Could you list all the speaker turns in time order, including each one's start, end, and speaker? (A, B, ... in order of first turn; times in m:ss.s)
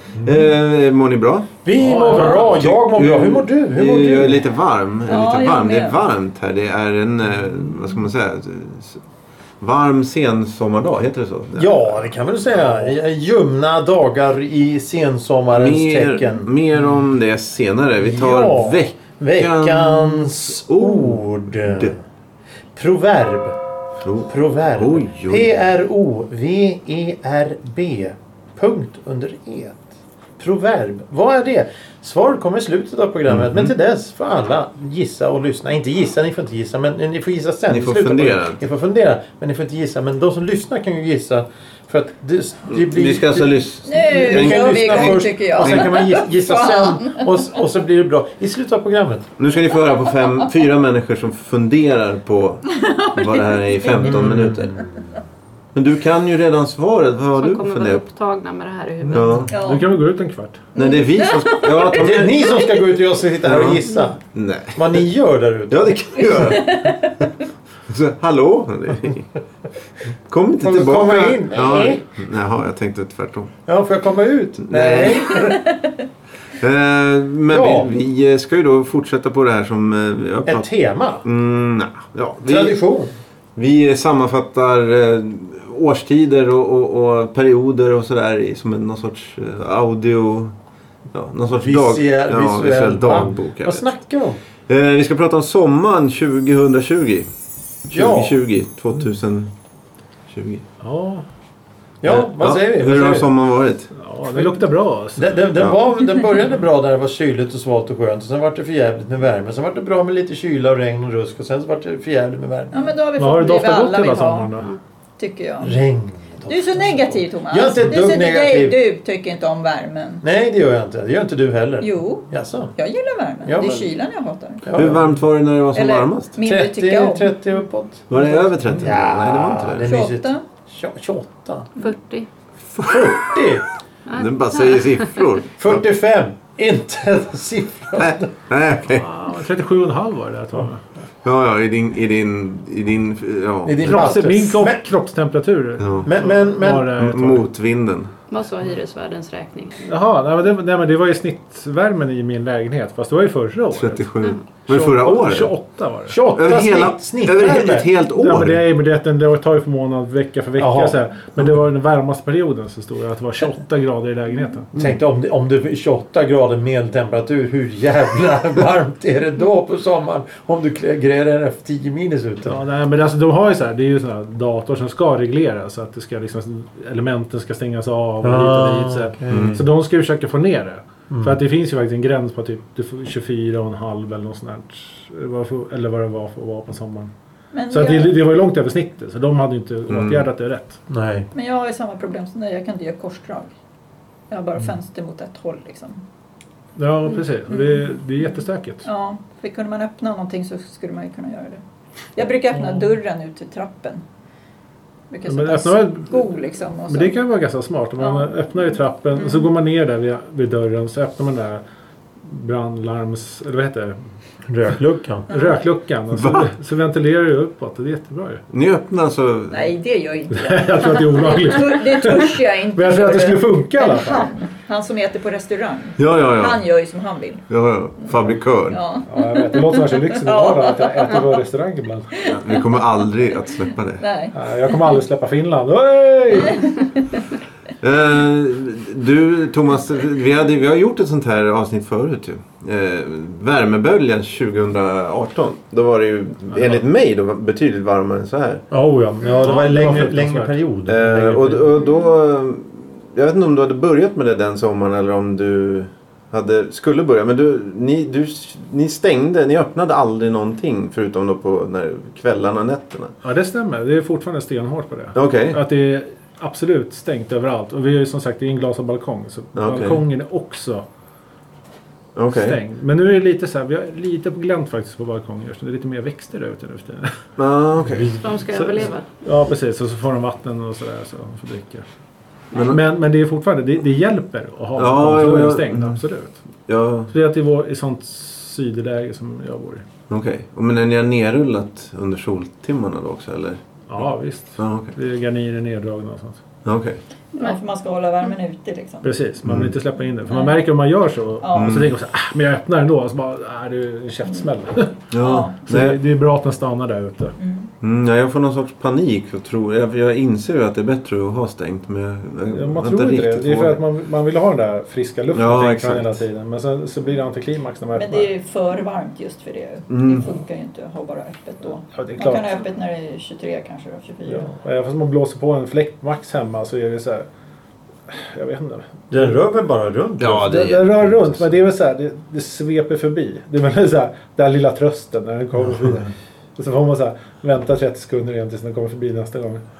0:00.2-0:09.0 A
0:01.6-0:04.5 B
0:01.8-0:02.4 C
0:05.0-0:06.0 D
0:09.6-0:11.8 A
0:11.6-0:16.5 B
0:15.5-0:21.9 A
0:18.0-0:22.0 B
0:22.7-0:23.6 B
0:24.0-0:25.5 A
0:24.2-0:49.3 B
0:33.3-0:33.7 A
0:37.7-0:38.6 A
0:42.7-0:45.9 A
0:43.8-0:47.3 D
0:49.4-0:52.6 A
0:52.7-0:54.2 D
0:53.1-0:54.8 A
0:54.0-0:54.8 B
0:55.7-0:58.0 A
0:57.3-0:59.4 E
0:59.1-1:00.6 C
0:59.1-0:59.5 A
0:59.5-0:59.9 D
1:00.7-1:02.8 D
1:00.8-1:02.5 A
1:01.9-1:04.2 B
1:03.4-1:05.0 A
1:04.7-1:06.6 B
1:05.7-1:07.1 A
1:06.2-1:07.3 D
1:07.9-1:09.3 A
1:10.3-1:13.5 A
1:10.6-1:12.2 B
1:13.6-1:15.8 B
1:14.6-1:15.4 A
1:15.3-1:16.0 D
1:16.6-1:20.6 A
1:17.5-1:17.9 B
1:20.4-1:21.2 B
1:21.2-1:22.7 A
1:22.4-1:23.1 B
1:23.6-1:30.5 A
1:31.1-1:33.8 A
1:31.5-1:34.4 B
1:34.7-1:37.3 A
1:37.8-1:39.5 A
1:37.9-1:38.4 B
1:40.3-1:40.6 A
1:40.8-1:41.2 C
1:42.0-1:43.3 B
1:42.0-1:43.9 A
1:43.9-1:45.4 C
1:45.2-1:52.9 B
1:52.7-1:54.5 D
1:53.2-1:54.7 C
1:55.2-1:55.8 D
1:55.6-1:58.8 B
1:56.4-2:00.2 D
2:00.2-2:02.7 B
2:01.8-2:04.7 D
2:03.4-2:03.9 B
2:04.6-2:05.1 B
2:04.7-2:06.4 A
2:05.7-2:07.3 D
2:06.4-2:11.7 B
2:08.1-2:09.9 A
2:09.8-2:10.4 D
2:11.8-2:12.3 E
2:12.8-2:13.1 A
2:12.8-2:13.6 B
2:14.1-2:15.3 E
2:14.1-2:15.6 A
2:15.6-2:18.3 B
2:18.0-2:19.0 A
2:18.8-2:20.9 C
2:21.2-2:24.1 A
2:23.6-2:24.8 B
2:23.8-2:27.4 C
2:25.8-2:26.1 A
2:26.0-2:26.9 B
2:26.9-2:28.1 A
2:28.3-2:29.9 E
2:29.8-2:34.0 C
2:33.7-2:35.5 A
2:34.7-2:35.0 B
2:34.7-2:36.2 C
2:36.1-2:37.9 B
2:36.3-2:38.6 A
2:38.2-2:44.7 C
2:40.6-2:41.5 B
2:44.7-2:52.6 B
2:52.4-3:07.1 C
2:58.2-2:59.6 B
2:59.3-2:59.6 A
3:01.1-3:01.4 B
3:07.5-3:08.1 D
3:07.7-3:10.8 C
3:09.9-3:10.3 A
3:10.9-3:11.3 B
3:11.3-3:13.5 D
3:14.3-3:16.0 D
3:16.8-3:18.9 C
3:18.8-3:21.6 D
3:22.2-3:24.0 D
3:22.5-3:22.9 C
3:25.1-3:27.1 D
3:25.2-3:26.3 C
3:26.8-3:31.6 C
3:28.0-3:28.3 D
3:29.2-3:29.5 D
3:32.2-3:34.0 C
3:34.5-3:35.3 B
3:35.3-3:38.4 C
3:36.2-3:36.4 A
3:38.5-3:39.7 A
3:39.5-3:47.5 D
3:40.3-3:44.3 C
3:46.0-3:46.6 A
3:47.5-3:48.8 A
3:48.7-3:51.4 D
3:49.0-3:52.1 C
3:52.2-3:52.8 D
3:52.2-3:54.0 A
3:54.0-3:54.8 D
3:54.3-3:56.7 C
3:56.4-3:56.8 D
3:57.8-4:08.6 A
4:06.5-4:06.8 C
4:08.7-4:11.7 B
4:09.3-4:09.6 D
4:09.4-4:10.5 C
4:10.9-4:23.1 A
4:23.2-4:30.8 C
4:25.1-4:25.6 A
4:29.5-4:30.0 A
4:32.2-4:32.6 A
4:32.3-4:37.2 C
4:37.4-4:38.2 A
4:37.8-4:41.8 C
4:38.2-4:39.1 E
4:42.5-4:42.8 A
4:42.7-4:46.4 C
4:44.8-4:46.0 A
4:46.7-4:47.1 A
4:47.1-4:49.8 C
4:50.1-4:53.6 A
4:53.9-4:56.4 C
4:54.6-4:54.9 A
4:56.6-4:57.0 A
4:57.3-4:59.2 D
4:59.0-5:05.0 C
4:59.4-4:59.7 A
5:00.3-5:00.6 D
5:01.4-5:01.8 D
5:01.5-5:01.9 A
5:05.1-5:06.0 A
5:05.2-5:05.5 D
5:05.6-5:07.4 C
5:07.4-5:07.7 D
5:07.8-5:13.8 A
5:12.5-5:18.3 C
5:15.3-5:16.2 A
5:17.9-5:24.5 D
5:19.9-5:20.3 A
5:21.9-5:22.6 C
5:24.2-5:27.3 C
5:28.1-5:29.4 C
5:29.1-5:30.5 B
5:30.2-5:31.5 A
5:30.4-5:39.6 C